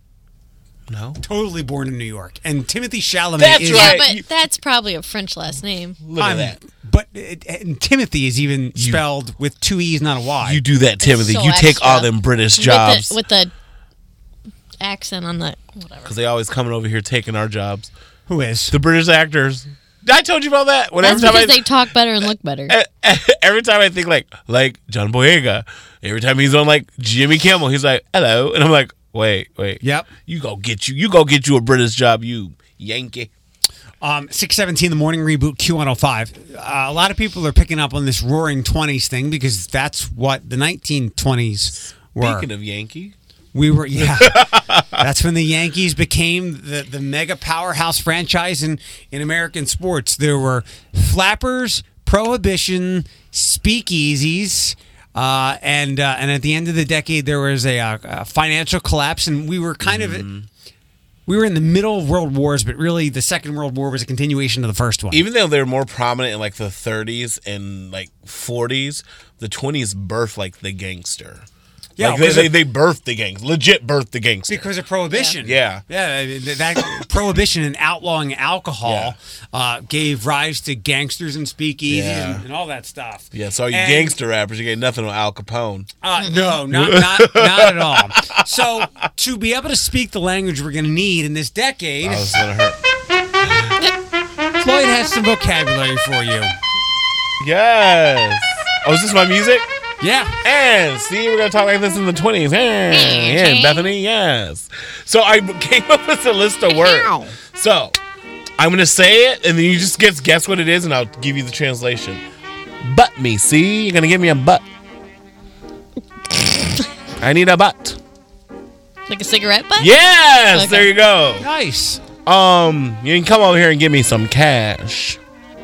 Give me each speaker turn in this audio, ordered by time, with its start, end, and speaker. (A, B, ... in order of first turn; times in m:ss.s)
0:00.9-0:01.2 A
0:01.2-0:04.0 B
0:03.4-0:04.2 A
0:03.7-0:06.0 C
0:06.0-0:06.6 A
0:06.2-0:10.6 B
0:08.8-0:09.0 A
0:10.4-0:13.2 A
0:11.0-0:13.5 C
0:14.8-0:16.1 C
0:16.0-0:17.9 A
0:18.3-0:18.7 B
0:18.7-0:21.8 A
0:21.0-0:22.7 C
0:21.1-0:21.3 B
0:22.7-0:33.3 A
0:29.8-0:30.1 B
0:34.0-0:42.5 B
0:42.2-0:43.1 A
0:43.5-1:00.3 B
0:44.1-0:45.0 A
0:59.8-1:00.5 A
1:01.3-1:05.2 B
1:05.1-1:11.4 A
1:12.0-1:12.5 B
1:12.0-1:14.7 A
1:14.5-1:24.2 B
1:15.4-1:15.8 A
1:18.8-1:19.1 A
1:21.9-1:22.4 A
1:23.3-1:25.9 A
1:26.0-1:32.4 B
1:26.2-1:26.6 C
1:26.7-1:28.7 A
1:32.0-1:32.8 A
1:34.6-1:36.5 B
1:37.4-1:39.7 A
1:40.0-1:40.4 B
1:40.4-1:48.0 A
1:42.9-1:43.8 C
1:48.6-1:52.2 A
1:52.8-1:54.6 A
1:56.3-1:56.9 C
1:57.2-1:58.0 A
1:59.1-1:59.9 C
1:59.8-2:01.5 A
2:00.5-2:00.9 C
2:01.4-2:02.0 B
2:02.2-2:05.2 A